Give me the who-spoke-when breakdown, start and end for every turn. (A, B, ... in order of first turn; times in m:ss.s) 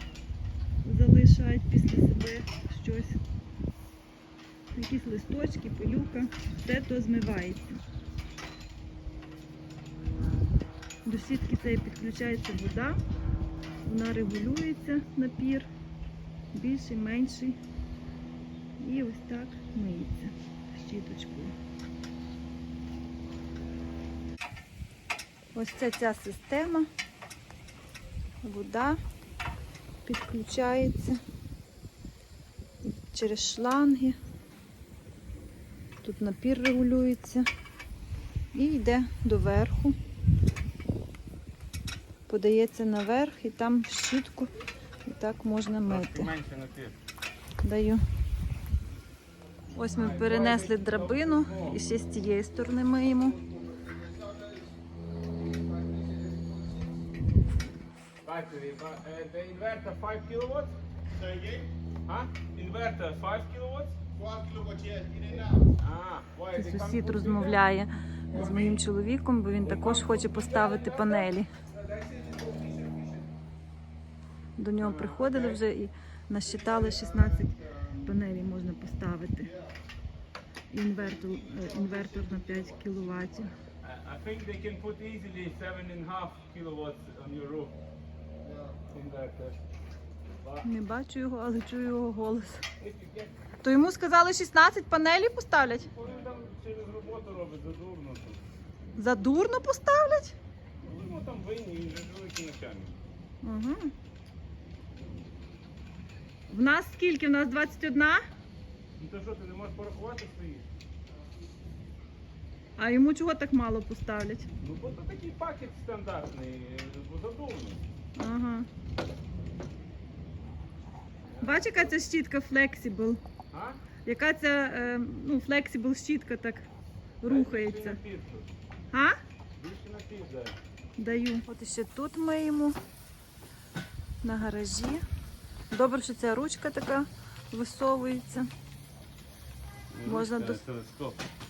0:00.8-0:03.2 A
0:04.8-0:07.8 A
0:11.1-0:13.0 A
0:13.8-0:15.7 A
0:16.5-0:17.6 A
0:18.8-0:21.6 A
0:25.6-0:26.9 A
0:28.4-0:29.0 A
0:30.0-0:31.2 A
0:32.8-0:34.2 A
0:36.0-0:37.5 A
0:38.5-0:40.0 A
0:42.3-0:44.5 A
0:45.0-0:46.3 A
0:45.9-0:47.0 B
0:47.6-0:48.0 A
0:49.7-0:53.4 A
0:49.8-0:51.8 B
0:53.2-0:57.0 C
0:58.2-1:04.1 B
1:04.2-1:05.4 C
1:05.4-1:07.6 B
1:06.5-1:11.5 A
1:08.3-1:08.8 B
1:09.6-1:11.2 B
1:11.7-1:13.2 C
1:14.6-1:19.5 A
1:14.8-1:15.6 B
1:20.7-1:23.5 A
1:23.8-1:27.8 B
1:28.4-1:28.8 C
1:28.9-1:29.6 B
1:30.6-1:32.6 A
1:32.8-1:33.3 B
1:33.6-1:35.9 A
1:35.9-1:38.4 B
1:39.0-1:40.4 A
1:40.8-1:43.0 B
1:43.4-1:43.9 A
1:46.5-1:48.2 A
1:49.0-1:50.7 B
1:52.8-1:54.5 A
1:54.6-1:57.8 B
1:58.2-1:58.7 A
2:01.3-2:01.9 B
2:01.4-2:03.2 A
2:03.5-2:03.8 B
2:04.0-2:06.7 A
2:07.2-2:08.0 A
2:07.2-2:08.5 B
2:08.9-2:09.2 A
2:09.6-2:10.6 B
2:11.0-2:12.8 A
2:14.2-2:15.0 A
2:15.7-2:18.5 A
2:19.9-2:21.2 B
2:20.0-2:20.6 A